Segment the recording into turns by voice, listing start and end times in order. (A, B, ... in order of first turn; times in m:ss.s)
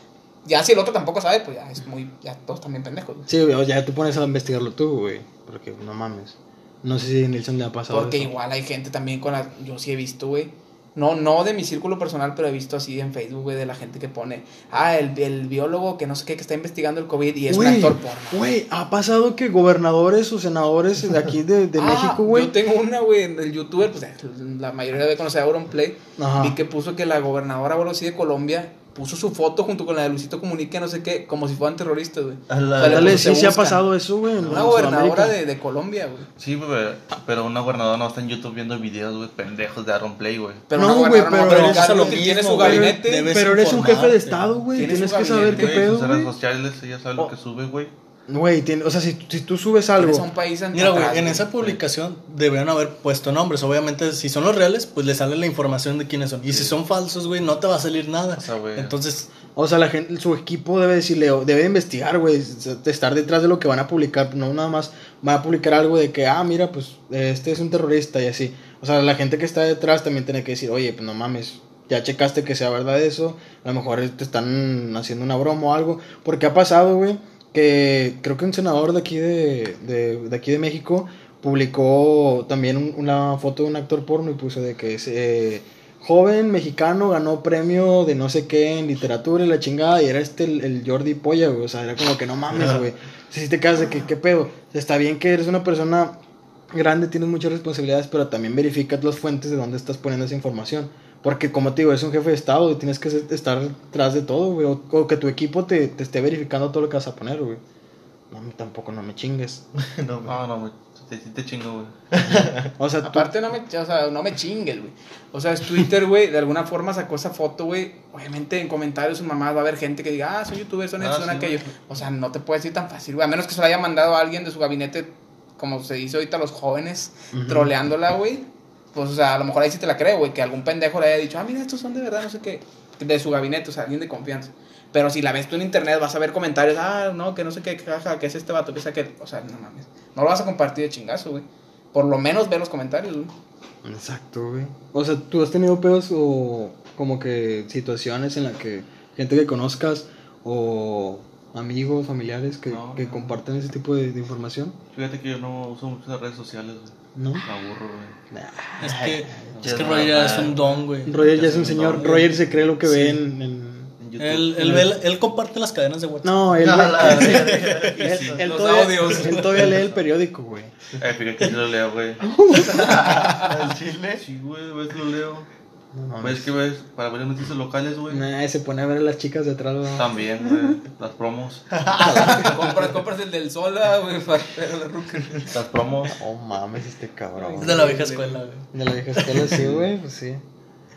0:00.4-0:03.3 A
0:03.3-0:08.3 B
0:07.9-0:18.4 A
0:17.5-0:22.5 B
0:21.8-0:33.8 A
0:26.2-0:26.6 B
0:32.5-0:33.3 C
0:32.8-0:35.4 B
0:34.4-0:34.9 C
0:34.4-0:36.3 A
0:36.4-0:40.6 D
0:40.7-0:43.3 A
0:40.8-0:46.3 B
0:41.4-0:44.6 E
0:44.8-0:45.9 A
0:45.3-0:47.9 D
0:48.3-0:50.3 B
0:50.0-0:51.6 A
0:50.7-0:59.3 E
0:56.5-0:56.8 D
0:58.4-0:58.9 D
0:59.6-1:36.2 B
1:36.7-1:47.6 B
1:48.3-1:49.6 B
1:49.8-1:50.4 C
1:50.3-1:51.9 D
1:52.1-1:52.7 C
1:52.8-1:53.3 B
1:53.0-2:23.3 A
2:01.0-2:01.8 D
2:07.4-2:07.7 B
2:23.8-2:34.8 B
2:32.7-2:33.4 D
2:34.9-2:38.2 D
2:37.2-2:37.4 B
2:38.3-2:39.6 B
2:38.8-2:41.2 E
2:38.9-2:40.5 C
2:39.5-2:42.4 D
2:41.1-2:43.9 B
2:42.8-2:43.2 E
2:44.0-2:44.8 D
2:44.2-2:48.0 E
2:44.6-2:44.9 B
2:46.2-2:50.7 B
2:46.6-2:48.4 C
2:47.9-2:48.4 D
2:48.4-2:49.6 A
2:49.2-2:49.7 E
2:49.6-2:50.0 D
2:51.0-2:52.3 D
2:52.2-2:53.5 B
2:52.7-2:54.2 C
2:54.2-2:55.5 D
2:56.0-2:56.5 B
2:56.2-2:58.2 D
2:58.1-3:00.8 B
3:00.0-3:01.8 D
3:01.8-3:02.7 C
3:02.0-3:05.5 A
3:05.5-3:06.2 D
3:06.1-3:08.0 B
3:07.5-3:08.3 A
3:07.6-3:08.6 E
3:08.7-3:10.4 B
3:09.4-3:09.8 D